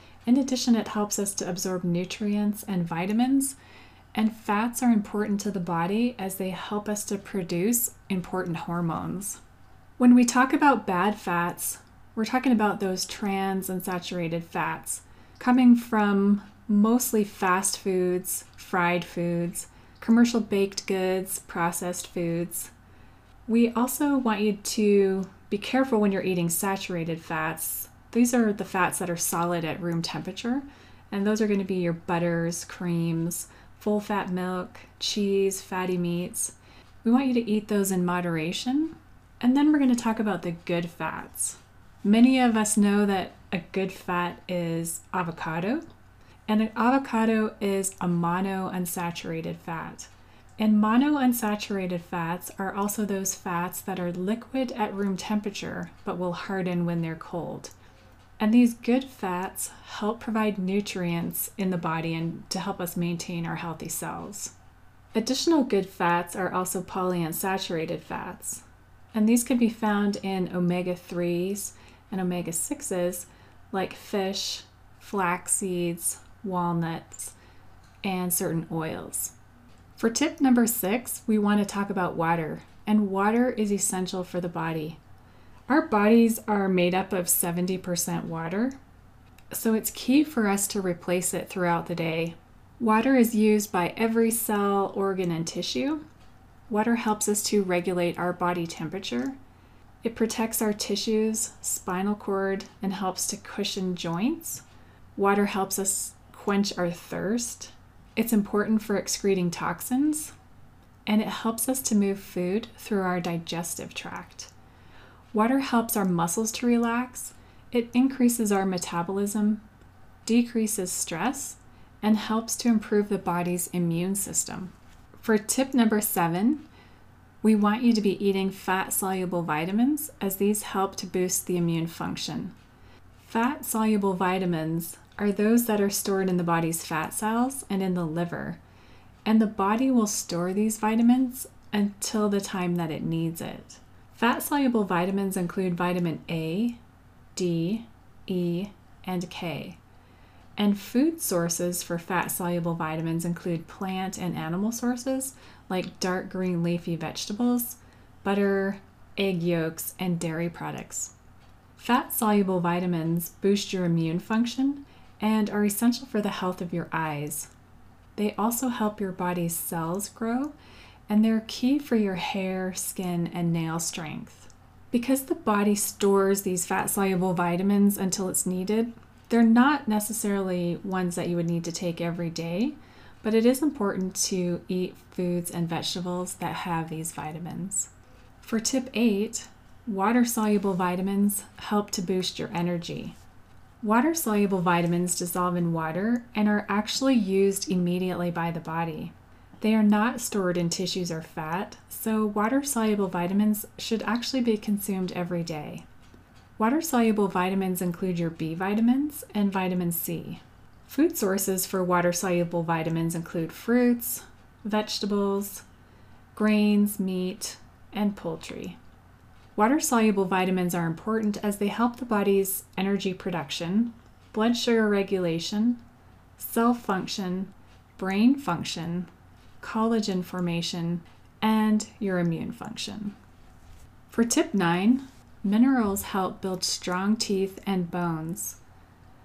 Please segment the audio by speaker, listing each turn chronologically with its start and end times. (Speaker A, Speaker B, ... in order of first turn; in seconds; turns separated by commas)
Speaker A: 0.2-3.6, Speaker A: 4.1-9.4, Speaker A: 10.0-22.7, Speaker A: 23.5-45.8, Speaker A: 46.5-57.7, Speaker A: 58.4-64.5, Speaker A: 65.1-77.3, Speaker A: 78.0-79.3, Speaker A: 80.0-85.0, Speaker A: 85.7-88.8, Speaker A: 89.5-96.0, Speaker A: 96.7-99.4, Speaker A: 100.0-104.6, Speaker A: 105.2-110.3, Speaker A: 111.0-114.5, Speaker A: 115.3-119.6, Speaker A: 120.2-126.6, Speaker A: 127.4-132.5, Speaker A: 133.2-138.6, Speaker A: 139.2-146.8, Speaker A: 147.3-149.8, Speaker A: 150.6-161.1, Speaker A: 161.8-167.5, Speaker A: 168.2-170.5, Speaker A: 171.1-187.9, Speaker A: 188.4-193.2, Speaker A: 193.8-205.8, Speaker A: 206.6-215.6, Speaker A: 216.3-218.8, Speaker A: 219.5-225.8, Speaker A: 226.4-233.2, Speaker A: 234.1-238.6